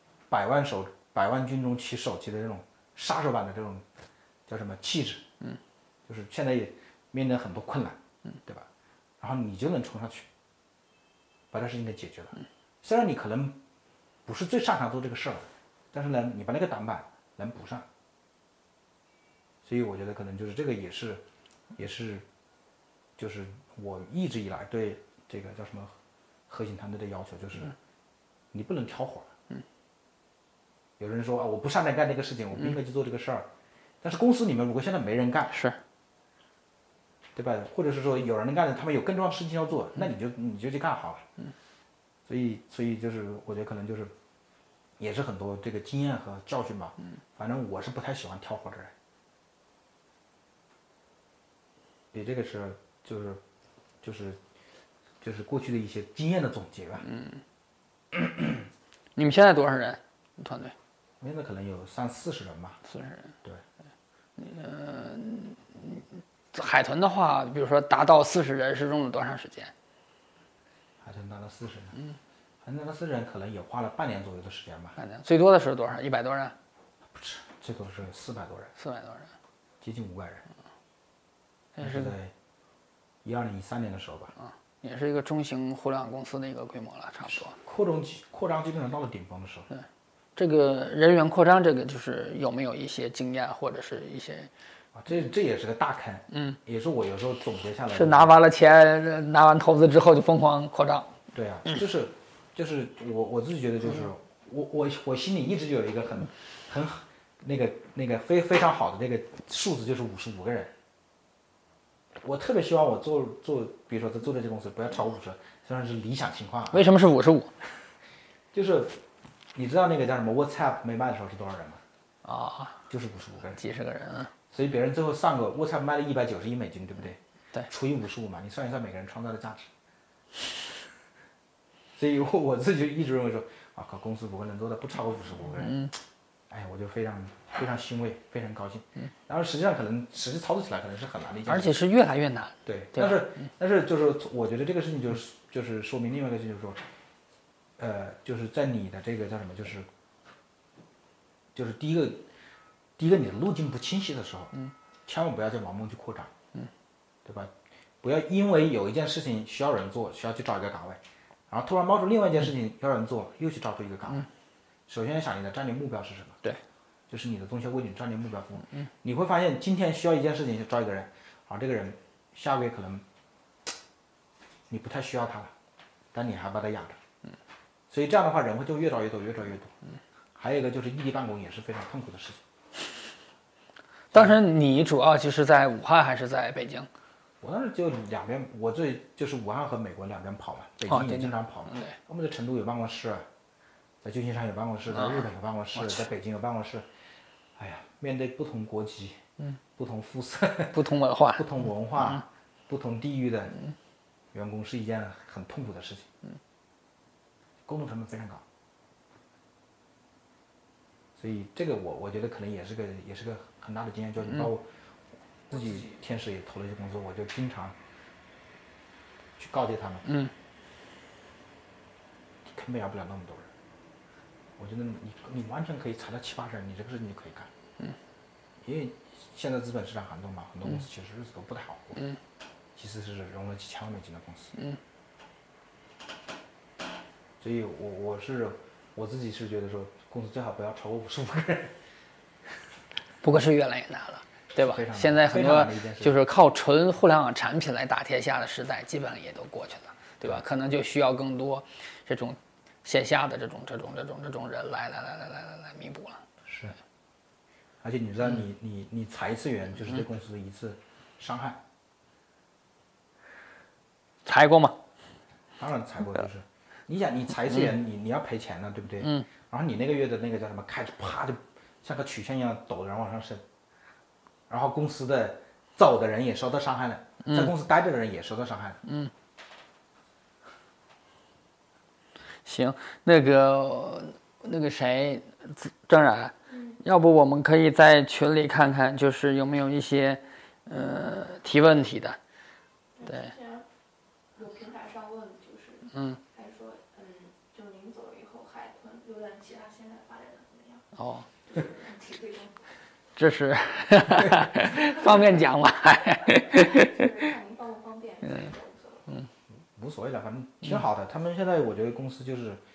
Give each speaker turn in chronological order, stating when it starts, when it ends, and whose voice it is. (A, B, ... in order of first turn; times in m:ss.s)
0:00.3-0:03.8 A
0:04.5-0:05.2 A
0:06.1-0:08.7 A
0:09.2-0:10.3 A
0:11.5-0:13.6 A
0:14.2-0:17.9 A
0:19.6-0:22.2 A
0:23.2-0:26.0 A
0:26.5-0:27.7 A
0:28.5-0:29.3 A
0:31.0-0:33.5 A
0:34.0-0:35.6 A
0:35.5-0:35.8 B
0:37.3-0:41.2 A
0:42.2-0:44.1 A
0:45.0-0:48.9 A
0:52.1-0:53.4 A
0:54.0-0:54.4 A
0:55.2-0:57.1 A
0:57.1-0:57.4 B
0:58.1-0:58.6 A
0:59.2-1:00.7 B
1:01.2-1:02.8 A
1:02.9-1:03.3 B
1:04.4-1:09.7 B
1:11.0-1:12.0 A
1:12.6-1:15.0 A
1:15.0-1:16.5 B
1:17.1-1:18.7 A
1:18.8-1:19.3 B
1:19.8-1:20.4 A
1:21.8-1:22.1 B
1:21.8-1:22.3 A
1:23.2-1:24.3 A
1:24.4-1:27.5 B
1:27.2-1:29.7 A
1:30.4-1:34.5 B
1:34.9-1:38.3 A
1:37.9-1:41.1 B
1:41.3-1:50.7 A
1:52.2-1:56.9 A
1:56.7-1:57.5 B
1:58.5-1:59.0 A
1:59.5-2:01.8 A
2:02.2-2:02.8 B
2:02.9-2:03.6 A
2:03.6-2:04.3 B
2:04.5-2:09.7 A
2:12.0-2:15.9 A
2:16.5-2:21.8 A
2:21.5-2:23.2 B
2:22.6-2:26.8 A
2:27.8-2:29.9 A
2:31.5-2:32.3 A
2:33.0-2:34.5 A
2:35.0-2:36.3 A
2:37.2-2:44.3 A
2:44.9-2:46.4 A
2:47.1-2:53.0 A
2:54.7-2:55.5 A
2:56.1-2:57.0 A
2:57.9-2:59.7 A
3:00.4-3:02.4 A
3:04.1-3:04.4 A
3:04.1-3:06.9 B
3:07.4-3:13.3 A
3:10.9-3:11.9 B
3:14.0-3:16.9 A
3:17.6-3:19.2 A
3:19.8-3:23.6 A
3:20.7-3:21.5 B
3:24.3-3:26.1 A
3:27.6-3:28.4 A
3:31.2-3:34.7 A
3:35.5-3:37.8 A
3:39.4-3:40.1 A
3:40.0-3:40.3 B
3:42.5-3:43.5 A
3:44.6-3:47.5 A
3:48.6-3:52.1 A
3:52.8-3:54.5 A
3:57.4-4:01.8 A
4:03.2-4:16.2 B
4:04.5-4:06.2 A
4:16.4-4:16.8 A
4:17.8-4:21.6 A
4:24.2-4:24.8 B
4:25.6-4:33.4 A
4:34.5-4:38.8 A
4:37.2-4:37.5 B
4:38.9-4:39.1 B
4:42.4-4:52.2 B
4:46.5-4:46.8 C
4:53.0-4:53.6 C
4:53.0-4:53.3 B
4:54.3-5:00.9 C
4:55.9-4:56.2 B
5:01.0-5:01.3 B
5:01.4-5:02.7 C
5:03.2-5:07.1 B
5:04.6-5:05.2 C
5:06.2-5:09.1 C
5:09.5-5:12.6 A